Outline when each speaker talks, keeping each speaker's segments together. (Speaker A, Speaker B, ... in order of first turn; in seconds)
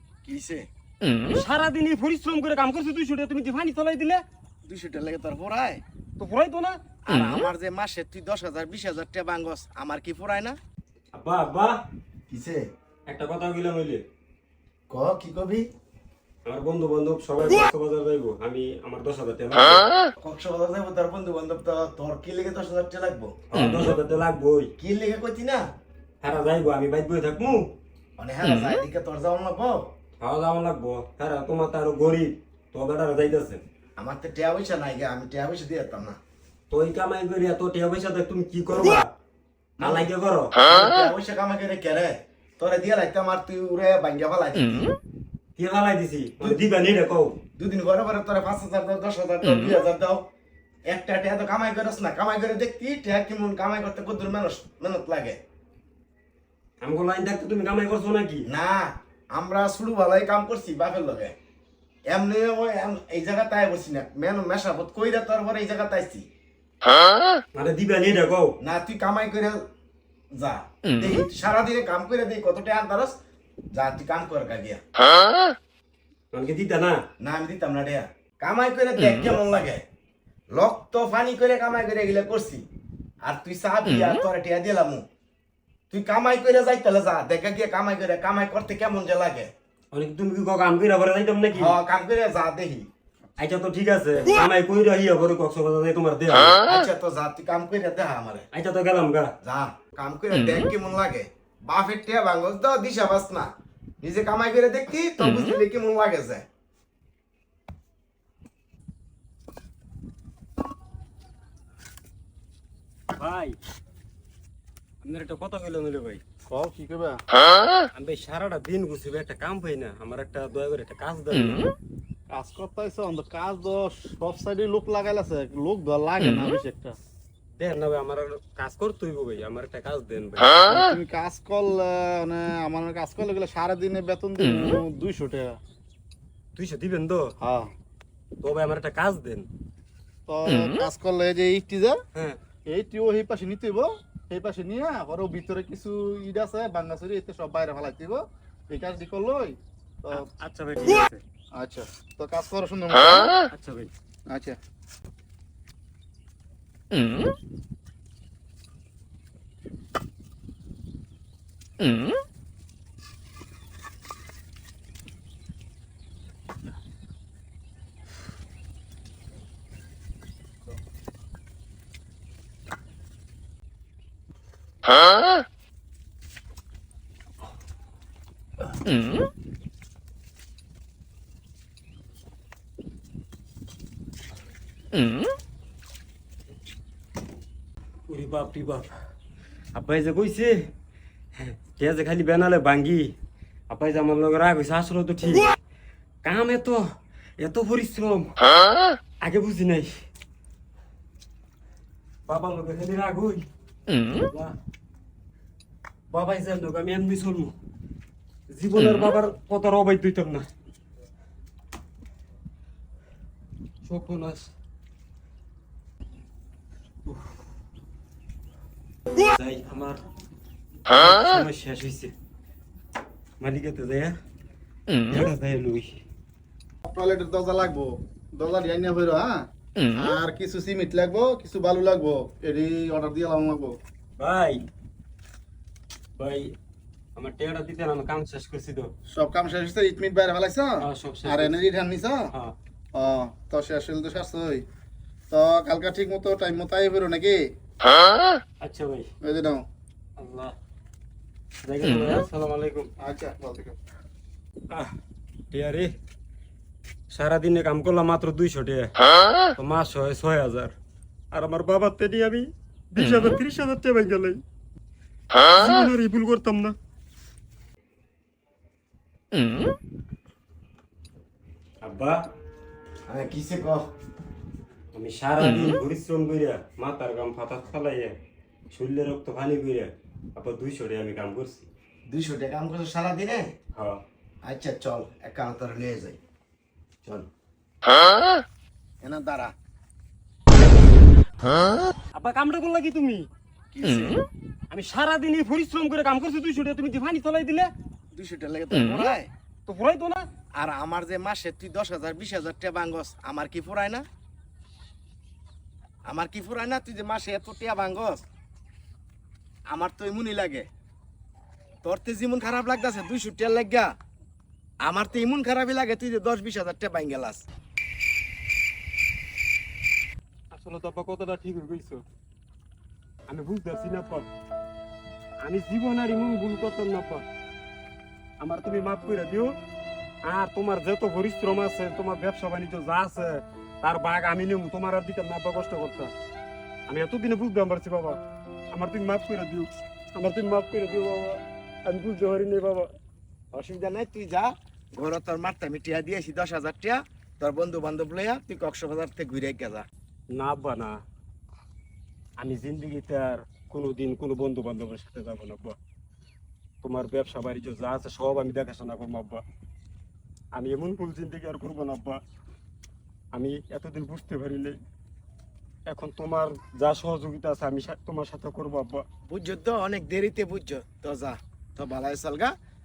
Speaker A: 0.2-0.7, 4.7-5.8, 7.0-10.6, 12.3-12.6, 14.9-15.7, 20.2-23.3, 24.8-25.6, 28.2-29.9, 34.0-36.2, 39.8-40.1, 40.6-44.9, 47.6-50.2, 50.9-55.4, 58.5-61.3, 62.1-66.3, 68.6-69.6, 70.4-73.1, 73.7-74.8, 77.2-79.8, 80.5-82.6, 83.2-85.0, 85.9-89.5, 91.5-92.9, 96.6-98.5, 99.4-103.5, 104.0-106.4, 273.1-273.9, 282.1-283.5, 284.4-286.2, 289.0-289.5, 293.7-294.2, 298.1-299.3, 300.6-304.0, 306.1-308.2, 309.7-310.6, 311.8-313.9, 314.8-317.4, 343.5-349.9, 369.3-372.5
Speaker B: 1.3-4.2, 6.2-6.8, 11.1-11.8, 13.1-14.0, 16.4-19.9, 23.5-24.7, 26.2-27.7, 30.2-33.6, 36.7-39.1, 39.8-40.6, 45.5-47.4, 56.8-58.5, 67.5-68.5, 76.3-77.0, 89.9-91.7, 93.4-96.6, 98.5-99.3, 113.2-113.5, 115.0-116.2, 118.0-121.7, 127.6-130.6, 136.5-137.3, 138.4-139.5, 150.1-151.2, 153.5-153.9, 188.1-188.9, 189.7-190.7, 191.3-193.1, 193.7-195.5, 196.2-196.8, 197.4-198.4, 199.2-200.0, 202.3-203.4, 204.1-204.6, 206.1-207.5, 208.5-210.5, 213.8-214.5, 219.3-220.0, 220.9-222.1, 223.4-224.2, 225.1-226.0, 234.2-234.6, 236.2-236.5, 237.2-238.9, 240.8-241.6, 248.6-249.1, 250.2-250.5, 251.6-252.9, 255.5-255.9, 257.1-258.9, 259.6-260.7, 261.3-264.4, 265.3-266.8, 271.8-272.3, 274.9-278.2, 278.7-281.7, 283.7-284.0, 292.1-293.3, 294.7-297.7, 299.6-300.2, 320.5-322.0, 323.3-324.3, 325.4-327.2, 328.4-329.5, 330.2-336.1, 336.9-338.2, 338.7-342.9, 350.3-351.0, 352.4-355.8, 356.8-359.4, 360.5-362.2, 363.3-364.8, 365.9-369.0
Speaker C: 116.5-117.2, 122.3-127.0, 130.7-135.6, 137.4-137.7, 140.3-142.0, 142.7-150.3, 151.6-153.3, 154.3-154.6, 226.8-233.8, 239.1-242.3, 242.9-244.6, 245.3-247.4, 249.2-249.6, 253.0-253.8